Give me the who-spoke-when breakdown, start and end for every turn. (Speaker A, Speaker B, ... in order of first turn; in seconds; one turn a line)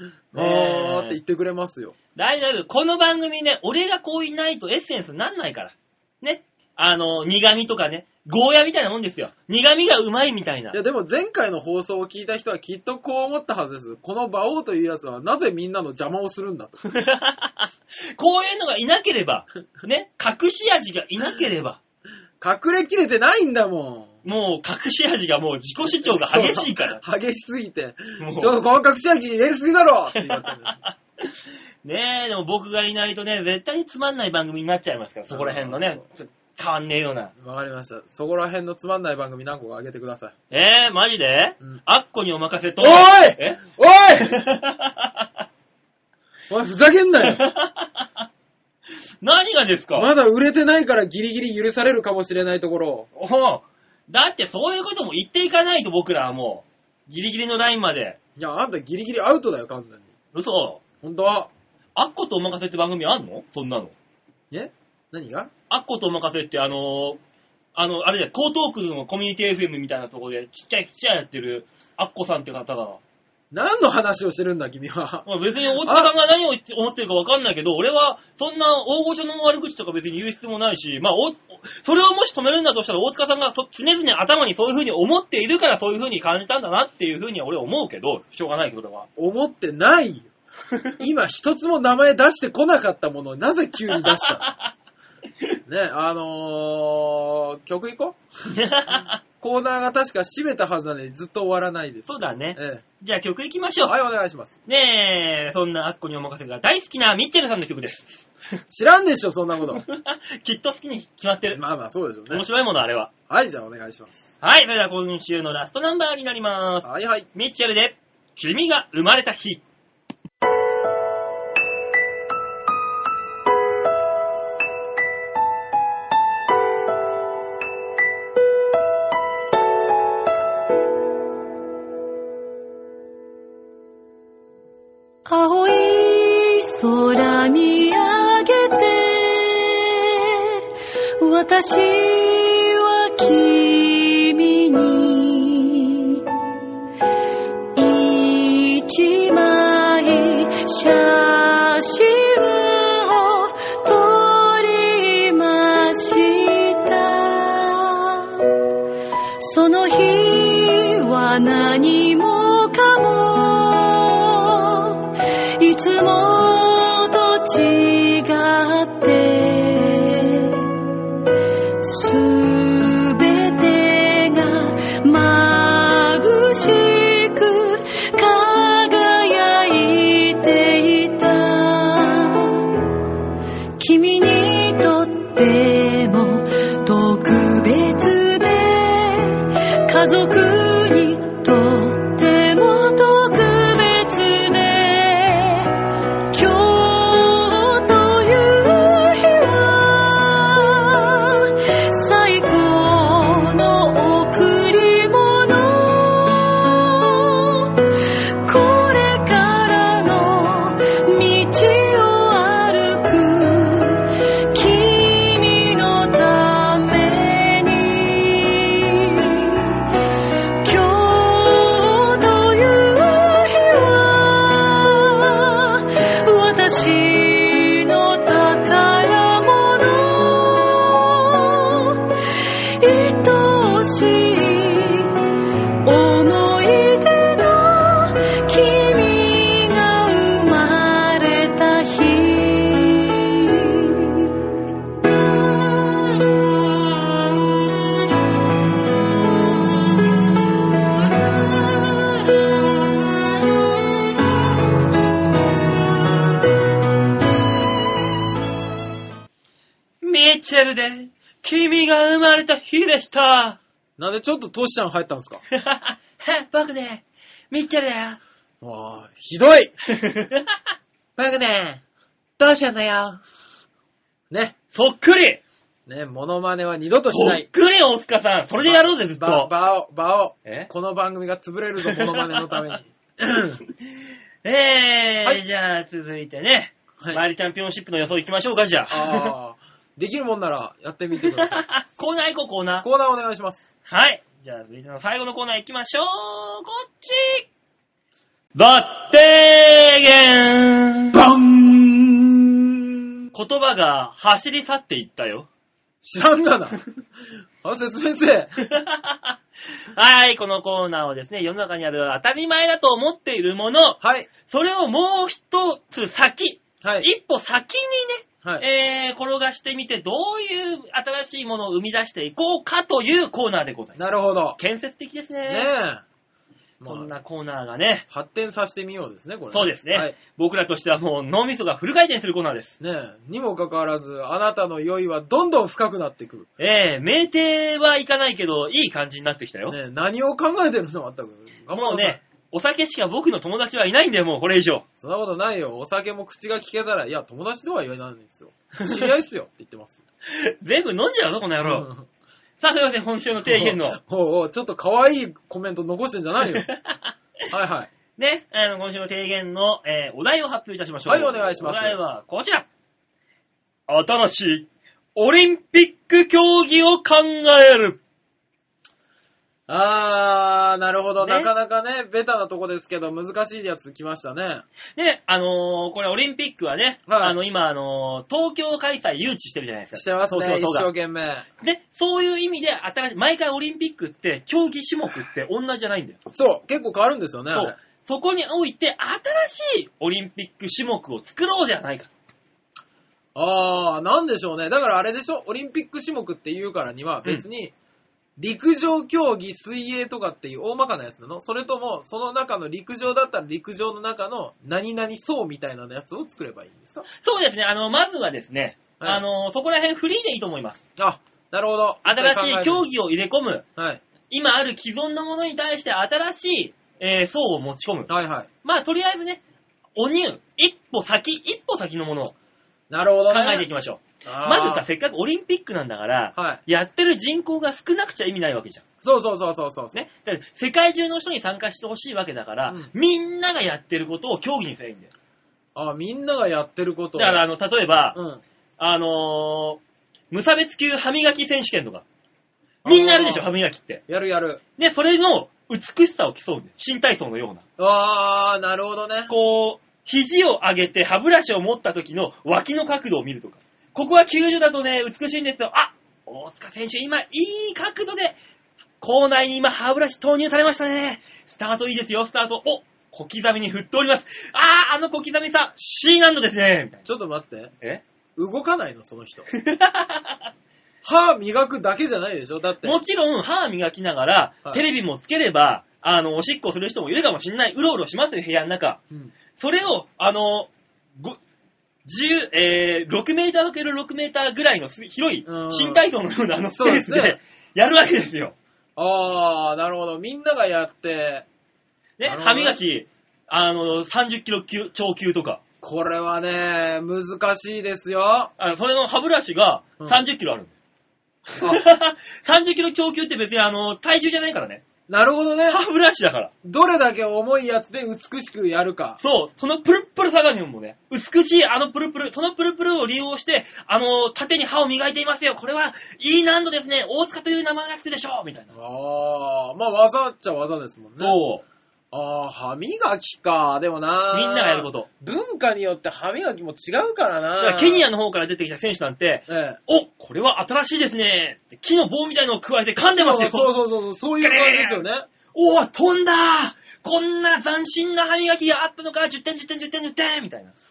Speaker A: 0.3-1.9
Speaker B: 0.3-1.2
Speaker B: 2.1-10.8
Speaker A: 10.7-16.8
Speaker B: 16.9-21.8
Speaker A: 22.4-24.2
Speaker B: 24.2-27.0
Speaker A: 25.9-30.8
Speaker B: 28.2-28.5
Speaker B: 30.4-31.3
Speaker B: 31.8-37.3
Speaker A: 35.3-36.0
Speaker A: 37.4-40.3
Speaker B: 40.5-45.3
Speaker A: 42.8-44.3
Speaker A: 46.5-47.4
Speaker B: 47.2-48.2
Speaker B: 49.2-50.1
Speaker A: 49.9-53.1
Speaker B: 53.1-58.2
Speaker A: 58.4-60.1
Speaker B: 60.3-60.8
Speaker A: 61.0-61.5
Speaker B: 61.9-63.9
Speaker A: 64.5-65.5
Speaker B: 65.7-67.2
Speaker B: 67.7-73.0
Speaker A: 73.5-75.3
Speaker B: 75.2-89.1
Speaker A: 75.8-76.1
Speaker A: 89.2-90.3
Speaker A: 91.0-94.5
Speaker B: 93.9-94.7
Speaker A: 95.7-98.2
Speaker B: 98.5-99.2
Speaker A: 99.4-102.8
Speaker B: 102.1-103.9
Speaker A: 103.8-104.6
Speaker B: 104.7-108.6
Speaker A: 108.7-109.8
Speaker B: 109.7-111.6
Speaker A: 111.5-112.4
Speaker B: 112.3-113.1
Speaker A: 113.3-114.3
Speaker B: 114.4-119.6
Speaker A: 116.8-117.3
Speaker C: 135.2-140.6
Speaker C: 141.2-146.2
Speaker C: 147.7-158.5
Speaker C: 159.4-170.8
Speaker C: 171.8-182.7
Speaker C: 183.8-195.7
Speaker C: 196.3-219.8
Speaker C: 220.6-235.2
Speaker C: 235.8-244.3
Speaker B: 260.0-263.6
Speaker A: 264.0-265.4
Speaker B: 265.5-268.2
Speaker A: 268.6-269.7
Speaker B: 269.9-270.5
Speaker A: 271.2-271.8
Speaker A: 272.4-273.2
Speaker A: 274.3-274.5
Speaker B: 274.7-275.4
Speaker A: 275.9-277.4
Speaker B: 277.1-279.5
Speaker A: 278.6-283.6
Speaker B: 281.8-282.8
Speaker B: 284.4-289.3
Speaker A: 288.9-291.6
Speaker B: 291.3-292.9
Speaker A: 292.8-293.7
Speaker B: 293.9-297.5
Speaker B: 298.5-301.2
Speaker A: 301.1-303.1
Speaker B: 303.3-305.5
Speaker A: 306.0-306.8
Speaker A: 307.6-308.5
Speaker B: 308.6-309.4
Speaker B: 309.9-324.0
Speaker A: 314.0-314.3
Speaker A: 316.8-317.1
Speaker A: 324.0-324.6
Speaker B: 324.6-325.7
Speaker A: 325.5-326.0
Speaker A: 326.8-327.1
Speaker B: 326.9-328.1
Speaker A: 328.1-330.1
Speaker B: 329.5-332.8
Speaker A: 332.8-336.5
Speaker B: 336.6-339.8
Speaker A: 339.7-342.2
Speaker B: 341.7-344.9
Speaker A: 345.0-350.0
Speaker B: 348.8-349.1
Speaker B: 350.3-351.9
Speaker A: 351.6-352.1
Speaker B: 352.6-354.0
Speaker A: 353.4-356.7
Speaker B: 356.6-357.1
Speaker A: 357.5-357.9
Speaker B: 358.2-362.7
Speaker A: 361.1-362.0
Speaker B: 363.9-368.0
Speaker A: 369.7-374.6
Speaker B: 371.2-371.5
Speaker B: 374.9-380.9
Speaker A: 377.1-377.4
Speaker A: 379.9-381.4
Speaker B: 381.6-386.2
Speaker A: 386.3-387.8
Speaker B: 387.5-392.1
Speaker A: 393.3-397.7
Speaker A: 398.4-407.1
Speaker B: 407.2-410.8
Speaker A: 411.0-412.9
Speaker B: 412.0-413.6
Speaker A: 413.8-414.0
Speaker B: 414.3-418.1
Speaker A: 418.1-418.5
Speaker B: 418.6-419.4
Speaker B: 419.9-422.3
Speaker A: 422.9-423.6
Speaker B: 423.3-428.8
Speaker A: 424.2-424.9
Speaker A: 426.4-426.6
Speaker A: 429.0-430.0
Speaker B: 429.9-435.1
Speaker A: 435.7-437.4
Speaker B: 437.1-438.2
Speaker A: 438.1-438.4
Speaker B: 438.8-439.8
Speaker B: 440.3-442.0
Speaker A: 442.8-443.5
Speaker B: 442.8-444.0
Speaker A: 444.1-444.6
Speaker B: 444.8-447.6
Speaker A: 447.8-449.3
Speaker B: 449.3-458.4
Speaker B: 459.0-467.1
Speaker A: 467.0-467.7
Speaker A: 468.4-469.5
Speaker B: 469.5-470.5
Speaker A: 471.0-473.0
Speaker B: 472.8-479.0
Speaker B: 479.6-481.4
Speaker B: 482.0-488.6
Speaker A: 485.4-486.0
Speaker A: 486.7-487.4
Speaker A: 488.9-491.4
Speaker B: 492.2-495.6
Speaker A: 492.2-492.8
Speaker A: 495.8-498.5
Speaker B: 498.6-500.7
Speaker A: 500.0-500.2
Speaker B: 501.5-504.8
Speaker A: 505.1-505.8
Speaker B: 505.7-506.5
Speaker A: 506.6-509.2
Speaker B: 509.2-518.7
Speaker A: 518.7-521.4
Speaker B: 521.2-521.6
Speaker A: 522.1-528.1
Speaker B: 524.3-525.1
Speaker B: 527.6-533.8
Speaker A: 529.5-529.8
Speaker A: 533.0-535.3
Speaker B: 534.4-540.7